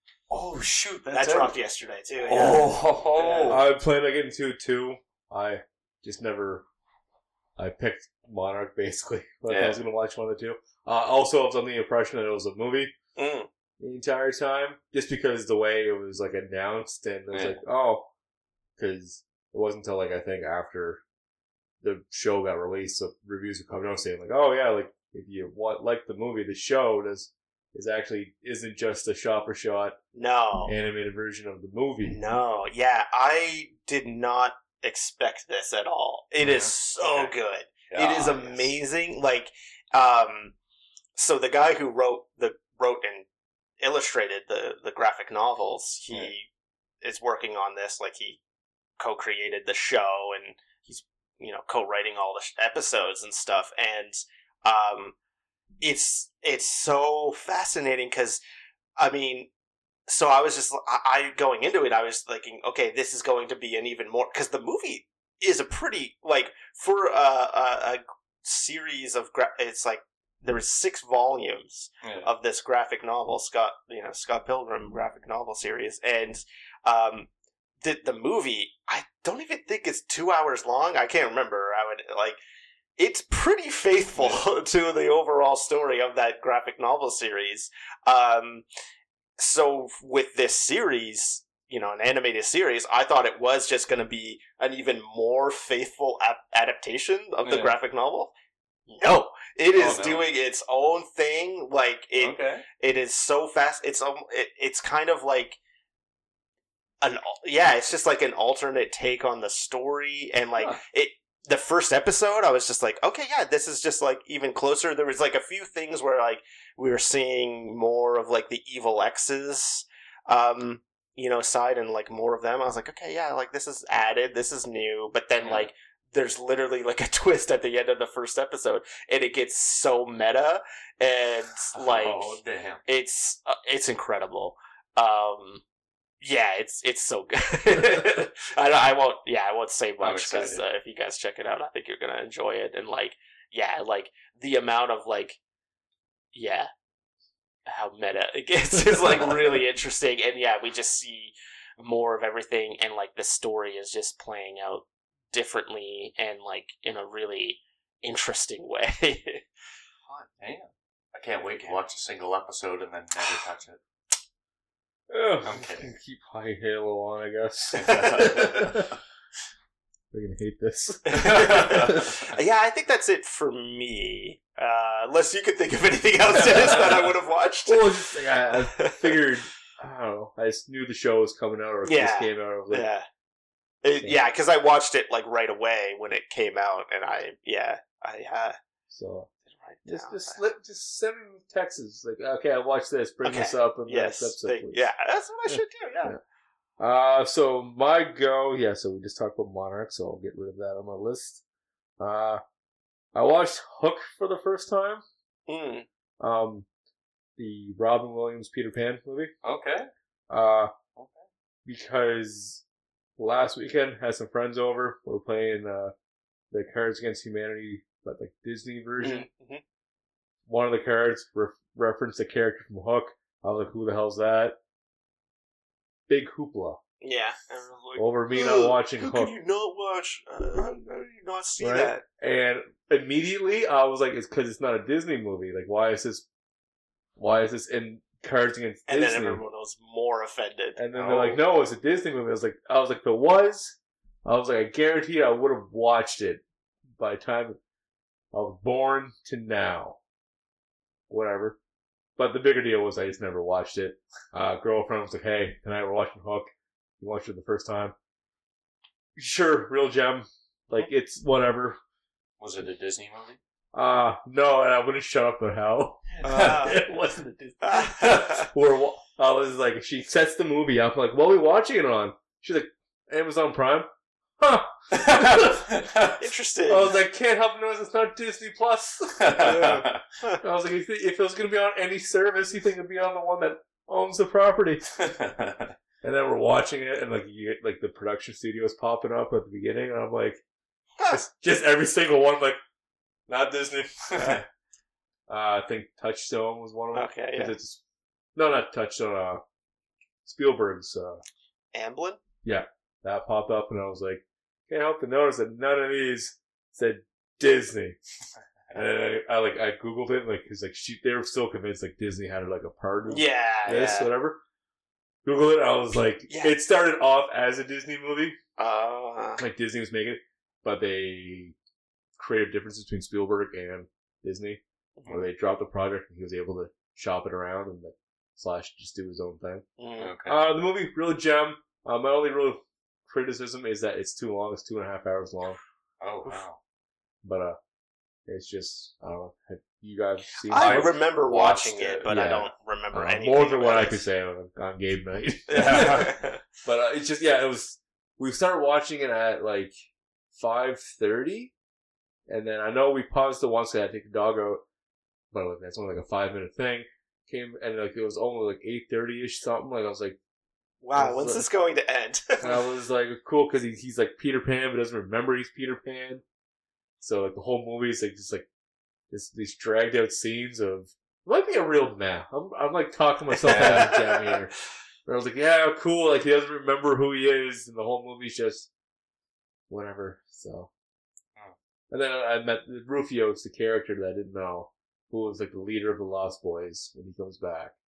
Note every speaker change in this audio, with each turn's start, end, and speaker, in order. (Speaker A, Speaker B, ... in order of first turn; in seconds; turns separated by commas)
Speaker A: 0.3-1.6, Speaker B: 1.1-3.6, Speaker A: 2.2-3.6, Speaker C: 3.5-6.6, Speaker C: 7.6-12.9, Speaker A: 9.5-9.8, Speaker B: 13.2-13.5, Speaker C: 13.8-18.1, Speaker A: 17.3-17.6, Speaker C: 18.8-21.0, Speaker C: 21.8-30.0, Speaker B: 30.1-30.7, Speaker C: 30.6-32.2, Speaker B: 32.0-40.5, Speaker A: 36.4-37.3, Speaker A: 37.9-38.7, Speaker B: 41.1-43.2, Speaker B: 43.8-46.5, Speaker B: 47.0-48.4, Speaker B: 49.0-55.1, Speaker B: 55.8-58.4, Speaker B: 59.0-59.5, Speaker B: 60.1-77.3, Speaker A: 72.0-72.3, Speaker B: 77.8-82.4, Speaker B: 83.0-88.6, Speaker A: 84.2-84.4, Speaker B: 89.4-98.3, Speaker A: 97.5-97.7, Speaker B: 99.0-105.6, Speaker A: 99.8-100.3, Speaker A: 102.2-102.7, Speaker B: 107.0-135.6, Speaker A: 125.4-125.7, Speaker A: 131.7-132.8, Speaker B: 136.2-145.4, Speaker A: 140.0-140.6, Speaker B: 146.3-146.7, Speaker B: 147.7-159.4, Speaker A: 160.1-163.8, Speaker B: 161.5-161.8, Speaker C: 165.1-168.9, Speaker A: 165.4-165.9, Speaker A: 167.7-168.9, Speaker B: 167.9-168.4, Speaker C: 170.1-172.0, Speaker B: 171.1-177.8, Speaker A: 171.1-172.2, Speaker A: 176.4-177.1, Speaker C: 177.7-182.9, Speaker B: 178.7-179.2, Speaker B: 181.8-183.1, Speaker B: 183.8-188.6, Speaker C: 188.9-189.3, Speaker B: 189.5-190.4, Speaker C: 189.8-194.8, Speaker B: 193.2-196.2, Speaker C: 195.5-196.2, Speaker C: 196.8-201.4, Speaker C: 202.0-202.4, Speaker C: 203.1-205.0, Speaker B: 205.5-205.8, Speaker C: 206.2-206.7, Speaker C: 207.4-209.3, Speaker A: 209.4-209.9, Speaker C: 210.3-210.7, Speaker A: 210.9-211.2, Speaker C: 211.6-212.6, Speaker C: 213.2-215.9, Speaker C: 216.5-219.3, Speaker B: 219.0-219.6, Speaker C: 220.5-224.6, Speaker C: 226.1-226.8, Speaker B: 227.0-232.0, Speaker C: 227.9-229.3, Speaker C: 231.6-236.2, Speaker C: 237.2-239.4, Speaker B: 238.9-240.8, Speaker C: 240.8-246.4, Speaker A: 240.9-241.4, Speaker C: 246.9-247.6, Speaker C: 248.3-250.0, Speaker C: 251.1-251.6, Speaker C: 252.2-257.9, Speaker C: 259.1-261.8, Speaker A: 262.4-263.4, Speaker C: 263.7-273.9, Speaker A: 266.2-266.6, Speaker B: 266.2-268.5, Speaker C: 274.4-275.6, Speaker A: 274.9-276.2, Speaker B: 276.2-277.0, Speaker C: 276.7-279.9, Speaker A: 279.2-280.0, Speaker C: 280.4-284.8, Speaker A: 284.9-285.7, Speaker C: 286.0-290.4, Speaker C: 291.1-292.6, Speaker C: 293.3-294.4, Speaker A: 294.1-294.4, Speaker C: 295.3-297.8, Speaker B: 296.9-297.5, Speaker C: 298.3-299.4, Speaker C: 300.2-301.2, Speaker B: 301.7-302.2, Speaker C: 302.4-308.0, Speaker C: 308.7-314.4, Speaker B: 313.1-314.1, Speaker C: 315.2-318.4, Speaker B: 316.3-316.6, Speaker B: 318.6-319.4, Speaker C: 319.4-321.5, Speaker C: 322.2-329.6, Speaker B: 325.0-325.2, Speaker B: 329.8-330.1, Speaker A: 330.0-330.4, Speaker C: 330.2-335.6, Speaker A: 336.0-336.6, Speaker C: 337.2-337.6, Speaker C: 338.3-341.0, Speaker B: 340.5-344.0, Speaker A: 340.5-342.3, Speaker C: 342.1-349.8, Speaker B: 345.5-346.4, Speaker A: 345.6-346.1, Speaker C: 350.3-351.5, Speaker C: 352.3-354.6, Speaker C: 355.3-360.2, Speaker B: 360.8-362.5, Speaker C: 360.9-361.4, Speaker C: 362.4-366.2, Speaker C: 367.0-368.5, Speaker C: 369.1-374.5, Speaker B: 373.4-374.3, Speaker A: 373.5-373.9, Speaker C: 375.1-378.7, Speaker C: 379.7-380.7, Speaker C: 381.9-387.7